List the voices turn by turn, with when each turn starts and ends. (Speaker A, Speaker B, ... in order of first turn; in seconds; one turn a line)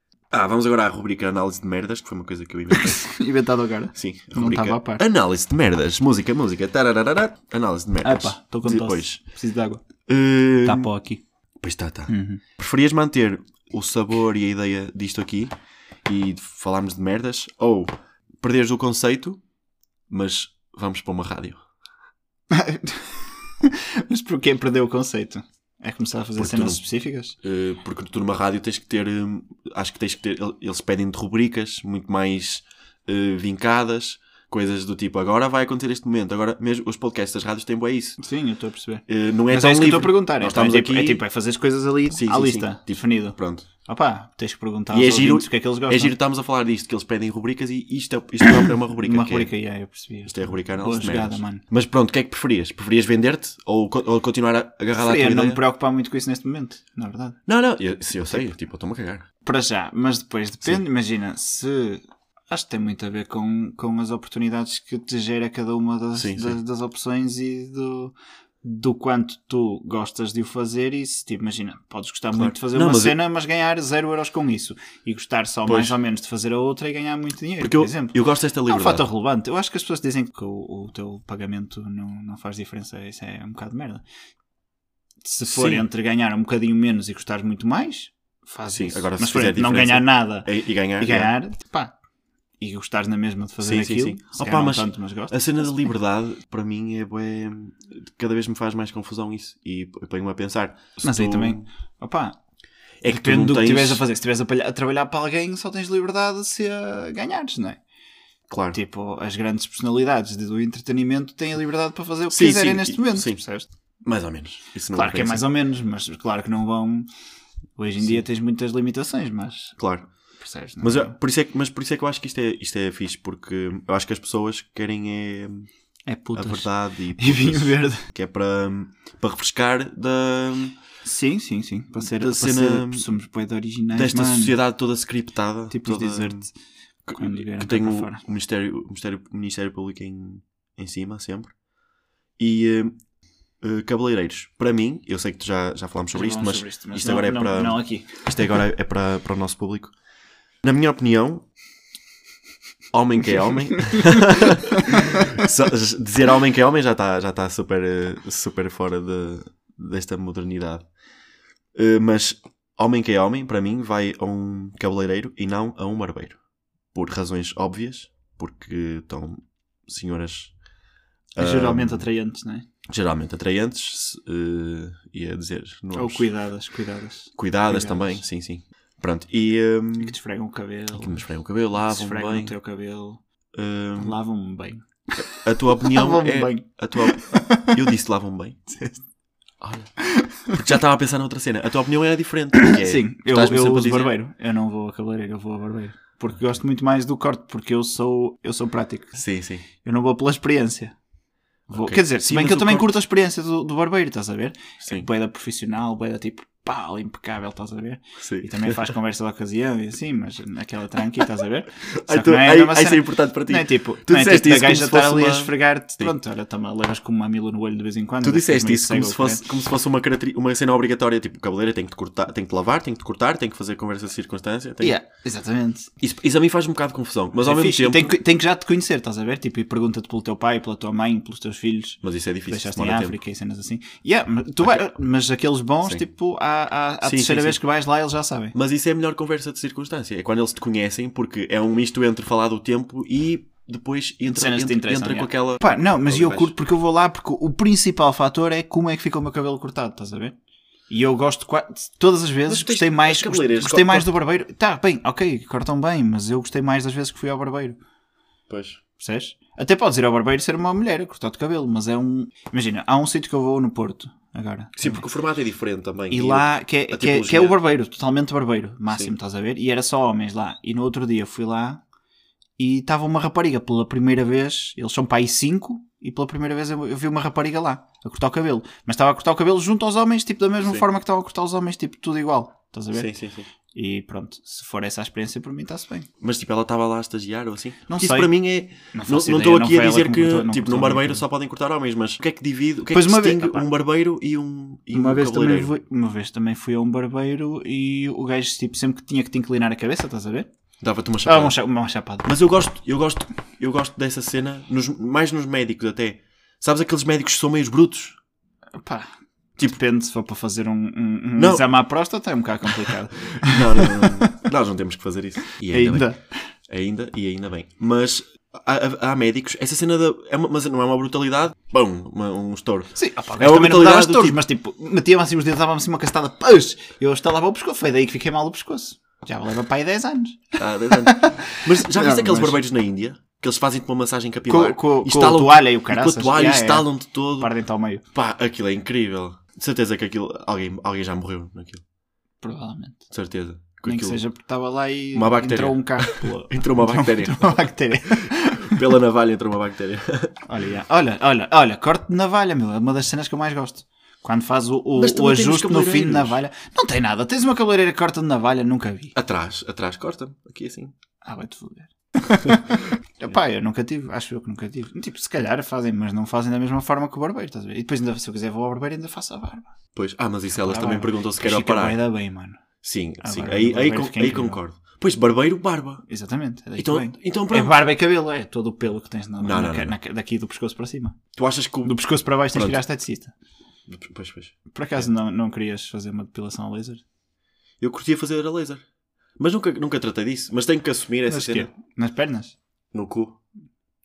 Speaker A: 0.3-3.1
Speaker B: 2.7-5.0
Speaker A: 3.9-9.2
Speaker B: 8.0-9.8
Speaker A: 10.1-10.9
Speaker B: 10.6-11.2
Speaker A: 11.6-19.4
Speaker B: 12.1-12.4
Speaker A: 20.1-21.6
Speaker B: 22.5-27.4
Speaker A: 26.4-26.8
Speaker A: 27.4-38.2
Speaker B: 38.2-46.1
Speaker A: 39.1-41.2
Speaker A: 42.1-43.7
Speaker A: 44.9-49.5
Speaker B: 49.0-51.6
Speaker A: 50.2-55.6
Speaker B: 55.0-57.4
Speaker A: 57.5-59.2
Speaker B: 59.4-84.0
Speaker A: 66.2-66.6
Speaker A: 72.3-73.2
Speaker A: 75.7-76.0
Speaker A: 77.6-79.0
Speaker B: 85.2-91.9
Speaker A: 85.5-85.9
Speaker A: 88.7-91.3
Speaker B: 92.6-95.6
Speaker A: 93.6-101.6
Speaker B: 101.0-102.3
Speaker A: 103.0-104.0
Speaker B: 103.1-107.8
Speaker A: 108.5-108.8
Speaker B: 108.7-113.7
Speaker A: 112.3-113.4
Speaker A: 114.0-115.4
Speaker B: 114.9-117.1
Speaker B: 117.8-119.8
Speaker A: 119.8-120.1
Speaker B: 120.4-121.2
Speaker A: 120.8-125.7
Speaker B: 126.1-128.1
Speaker A: 126.3-130.8
Speaker B: 131.0-134.5
Speaker A: 132.0-133.1
Speaker A: 133.9-136.5
Speaker B: 135.7-136.5
Speaker A: 137.1-141.5
Speaker B: 137.1-138.2
Speaker A: 142.4-143.0
Speaker A: 143.6-149.9
Speaker B: 146.1-148.2
Speaker A: 150.6-151.4
Speaker A: 152.9-160.9
Speaker A: 161.7-166.4
Speaker A: 166.9-170.6
Speaker A: 171.3-172.1
Speaker B: 171.4-172.7
Speaker A: 172.9-176.2
Speaker B: 175.9-178.2
Speaker A: 177.3-180.2
Speaker B: 180.0-181.2
Speaker A: 180.9-182.6
Speaker B: 181.8-183.2
Speaker A: 183.5-184.2
Speaker B: 183.9-187.8
Speaker A: 185.2-188.6
Speaker B: 188.7-189.0
Speaker A: 189.6-194.2
Speaker B: 190.0-190.4
Speaker B: 192.5-199.2
Speaker A: 199.2-199.6
Speaker B: 199.8-200.9
Speaker A: 201.7-202.9
Speaker B: 201.7-219.4
Speaker A: 208.2-208.9
Speaker A: 212.0-216.1
Speaker A: 218.2-224.9
Speaker B: 224.8-225.9
Speaker A: 226.0-228.2
Speaker B: 227.4-238.5
Speaker A: 232.0-233.2
Speaker A: 234.6-234.9
Speaker A: 237.0-237.6
Speaker A: 238.5-246.5
Speaker B: 244.2-250.3
Speaker B: 250.9-257.8
Speaker A: 252.4-254.1
Speaker A: 258.5-258.8
Speaker B: 259.0-265.1
Speaker A: 264.8-267.6
Speaker B: 266.1-271.8
Speaker B: 272.6-283.1
Speaker A: 282.9-283.5
Speaker B: 283.7-286.1
Speaker A: 286.2-295.7
Speaker B: 287.9-291.2
Speaker B: 292.9-293.7
Speaker B: 294.9-300.5
Speaker A: 300.8-301.6
Speaker B: 301.2-302.3
Speaker A: 302.2-308.2
Speaker B: 308.8-309.1
Speaker B: 309.6-314.4
Speaker A: 311.4-311.7
Speaker A: 312.8-324.4
Speaker B: 315.7-316.5
Speaker B: 322.9-332.6
Speaker A: 330.6-337.5
Speaker B: 334.5-336.9
Speaker B: 337.4-338.0
Speaker A: 338.1-341.8
Speaker B: 342.4-343.1
Speaker A: 343.1-344.2
Speaker B: 343.8-348.8
Speaker A: 345.1-350.3
Speaker B: 350.4-359.1
Speaker A: 354.9-356.4
Speaker A: 359.1-360.9
Speaker B: 361.2-362.7
Speaker A: 362.4-362.8
Speaker B: 363.2-369.7
Speaker A: 369.9-372.0
Speaker B: 370.5-372.6
Speaker A: 372.8-376.0
Speaker B: 373.2-374.6
Speaker B: 376.1-381.2
Speaker A: 376.8-377.8
Speaker A: 379.4-380.0
Speaker A: 381.3-382.0
Speaker B: 381.8-383.3
Speaker A: 382.5-382.8
Speaker A: 383.9-385.1
Speaker B: 384.7-387.0
Speaker A: 387.8-388.8
Speaker A: 389.4-391.7
Speaker B: 391.3-392.5
Speaker A: 392.9-393.4